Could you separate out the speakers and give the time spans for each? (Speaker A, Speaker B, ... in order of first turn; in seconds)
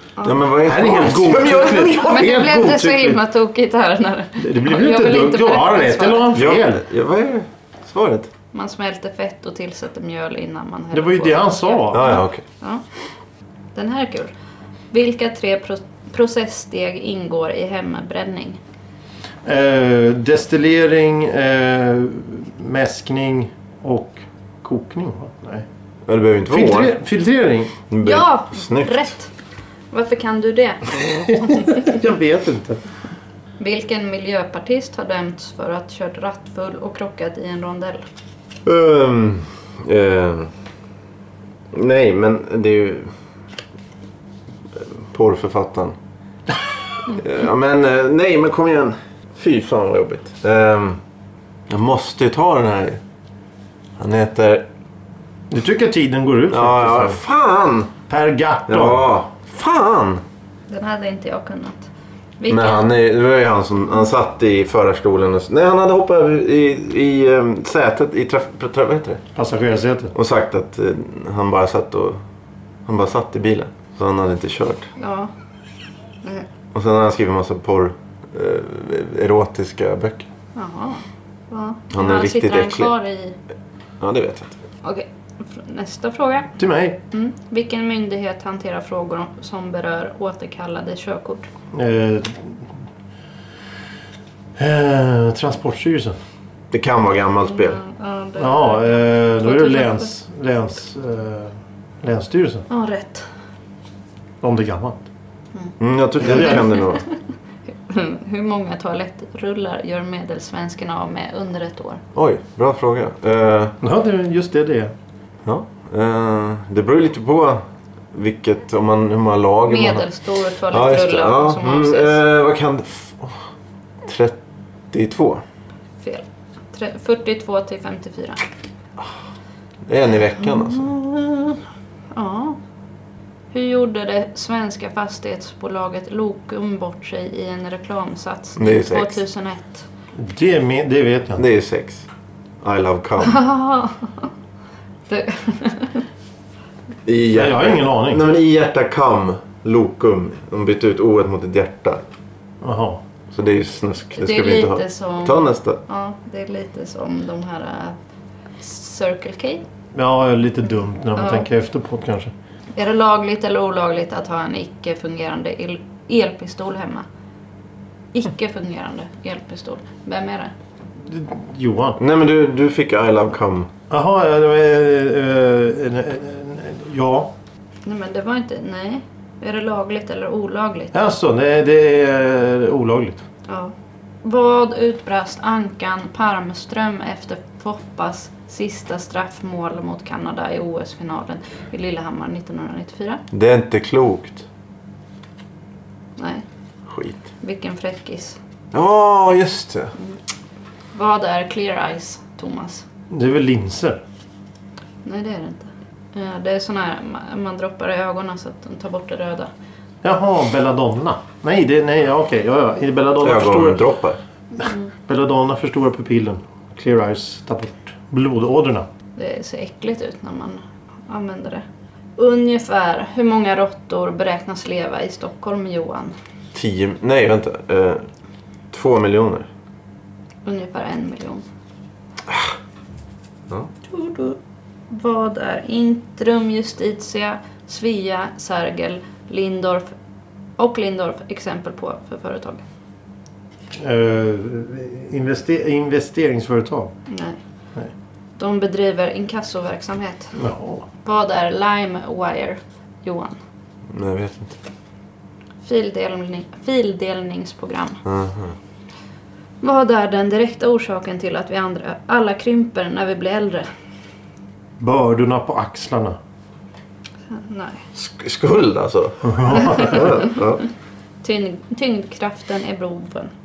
Speaker A: 0.2-2.3, 6.3-8.3, 11.9-12.4, 26.1-26.9, 27.9-29.1, 38.6-40.5, 41.7-43.1, 44.8-46.0, 47.1-51.0, 51.7-53.0, 54.0-54.6, 56.5-57.9, 58.7-60.2, 62.5-69.2, 70.1-72.2, 72.8-74.9, 76.7-80.3, 81.9-82.9, 84.0-84.5, 96.7-97.8, 105.8-107.0, 112.1-113.8, 115.5-117.6, 118.1-120.1, 120.7-123.4, 124.0-124.4, 124.9-125.4, 129.9-130.9, 138.6-139.2, 141.4-142.1, 142.6-143.4, 147.1-152.0, 153.3-155.8, 172.0-173.7, 193.3-194.4, 196.9-197.2, 198.7-199.9, 213.2-214.2, 226.5-228.0, 228.7-229.5, 253.9-254.6, 258.0-258.5, 267.9-270.6
Speaker B: 0.6-3.2, 4.4-6.8, 10.9-12.0, 19.4-25.6, 26.5-27.7, 31.1-32.8, 55.5-57.2, 58.1-59.0, 69.3-70.1, 86.6-87.0, 91.7-92.7, 94.6-96.2, 98.4-102.7, 104.4-105.0, 106.2-106.6, 113.8-114.9, 140.1-141.4, 147.3-148.2, 152.6-153.0, 159.9-162.3, 171.0-172.0, 173.9-177.3, 180.9-183.2, 203.1-204.0, 210.0-213.8, 215.1-218.9, 243.7-246.9, 250.3-250.8, 264.8-266.2, 269.2-270.0
Speaker C: 1.9-6.3, 8.5-12.8, 13.7-14.3, 14.9-18.6, 28.0-29.3, 29.9-32.0, 33.6-38.0, 60.7-61.9, 62.4-62.9, 75.0-75.3, 80.5-83.4, 84.8-86.5, 87.1-91.5, 97.4-100.1, 102.7-103.3, 105.5-107.2, 107.7-112.0, 119.6-122.2, 126.0-128.4, 130.4-131.6, 132.1-132.6, 133.5-139.8, 143.2-144.3, 145.1-146.1, 154.1-158.0, 158.6-159.6, 161.2-161.5, 162.8-167.0, 168.1-170.5, 177.8-180.9, 183.5-193.2, 196.2-196.4, 197.4-198.4, 200.9-202.8, 205.0-209.5, 219.2-221.6, 222.2-226.1, 230.4-231.4, 233.8-234.4, 234.9-239.9, 240.6-242.6, 247.1-247.4, 248.4-250.3, 251.0-253.3, 255.6-258.0, 259.6-263.7, 267.3-267.8, 269.6-270.1, 271.2-273.3